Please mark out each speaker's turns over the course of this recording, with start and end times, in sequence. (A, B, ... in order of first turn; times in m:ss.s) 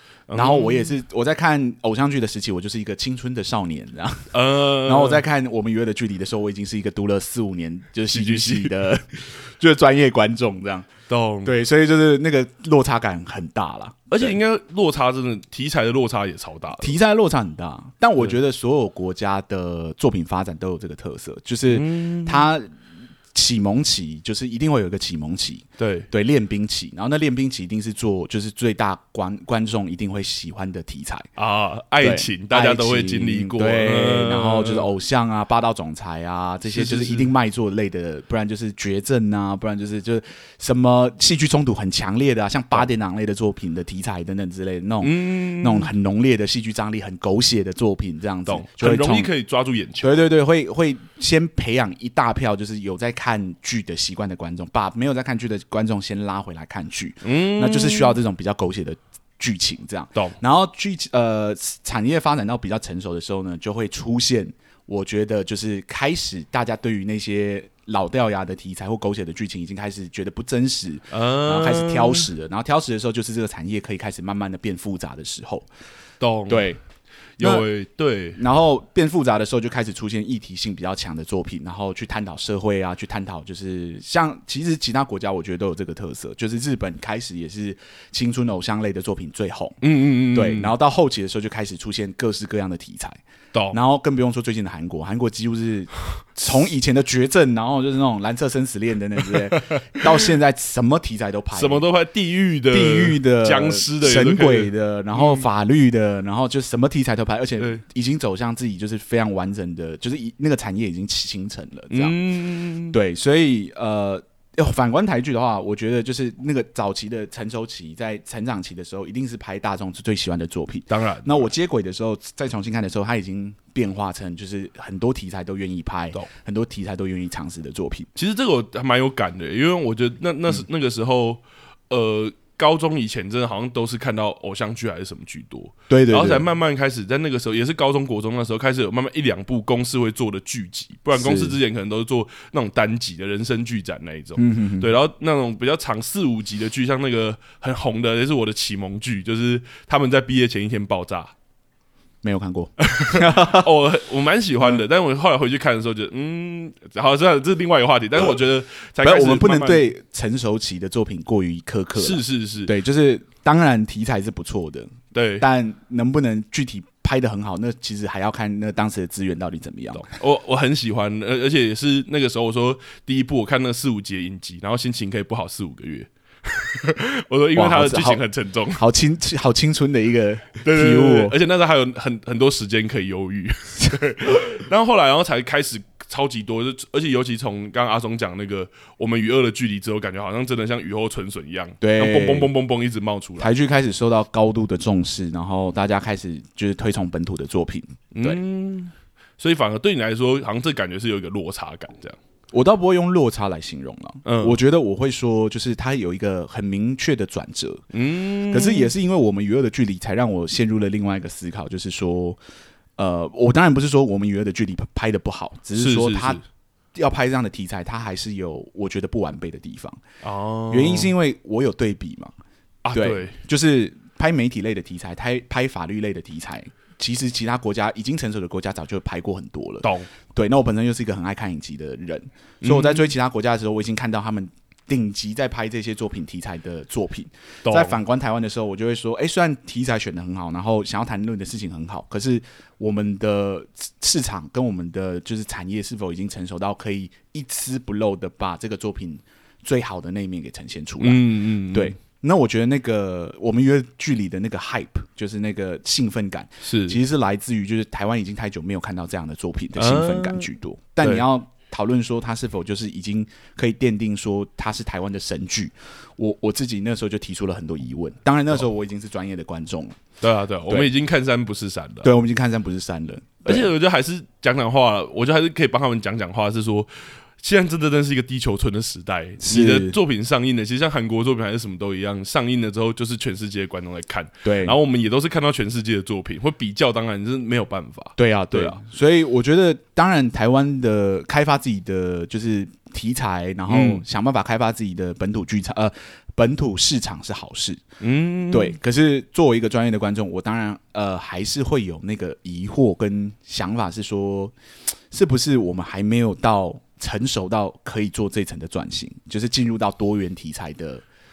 0:00.3-0:01.0 A
0:00.3-0:10.9 B
0:04.3-0:05.2 A
0:08.1-0:08.9 A
0:11.1-0:11.5 A
0:11.4-0:14.4 B
0:14.1-0:17.0 A
0:16.8-0:22.7 B
0:21.7-0:22.5 A
0:23.3-0:31.3 B
0:25.8-0:26.1 A
0:31.4-0:34.9 A
0:32.0-0:49.3 B
0:36.7-0:37.3 A
0:45.0-0:45.9 A
0:48.5-0:50.1 A
0:50.0-1:15.7 B
0:57.2-0:58.2 A
1:11.1-1:12.3 A
1:16.2-1:16.7 A
1:16.5-1:16.8 B
1:17.4-1:18.4 A
1:17.4-1:17.7 B
1:18.4-1:33.2 B
1:29.8-1:30.7 A
1:33.7-1:41.8 B
1:39.3-1:40.0 A
1:41.5-1:45.5 A
1:42.7-1:52.2 B
1:51.9-1:53.0 A
1:52.9-2:08.1 B
2:00.9-2:01.5 A
2:08.2-2:31.3 A
2:15.9-2:16.5 B
2:21.1-2:21.6 B
2:24.4-2:25.0 B
2:32.2-2:33.7 B
2:32.8-2:39.9 A
2:39.0-2:50.1 B
2:42.0-2:42.7 A
2:45.1-2:45.5 A
2:49.9-2:58.8 A
2:57.6-2:58.2 B
2:58.8-3:01.4 B
3:00.6-3:13.5 A
3:11.8-3:12.5 B
3:13.4-3:18.4 B
3:18.1-3:22.2 A
3:22.5-3:27.8 B
3:24.2-3:24.6 A
3:27.9-3:28.9 A
3:28.5-3:32.4 B
3:33.0-3:36.4 B
3:35.8-3:36.4 A
3:37.0-3:40.0 B
3:40.2-3:41.1 A
3:40.7-3:42.3 B
3:42.8-3:43.4 A
3:42.9-4:30.0 B
3:49.8-3:50.1 A
3:52.6-3:53.1 A
3:57.6-3:58.0 A
4:11.0-4:12.0 A
4:16.6-4:17.0 A
4:19.8-4:20.5 A
4:30.2-4:32.1 A
4:32.0-4:33.7 B
4:33.4-4:48.8 A
4:39.4-4:40.0 B
4:44.4-4:44.8 B
4:48.2-4:57.8 B
4:53.7-4:54.0 A
4:58.0-4:58.8 A
4:58.5-5:04.5 B
5:05.1-5:11.0 B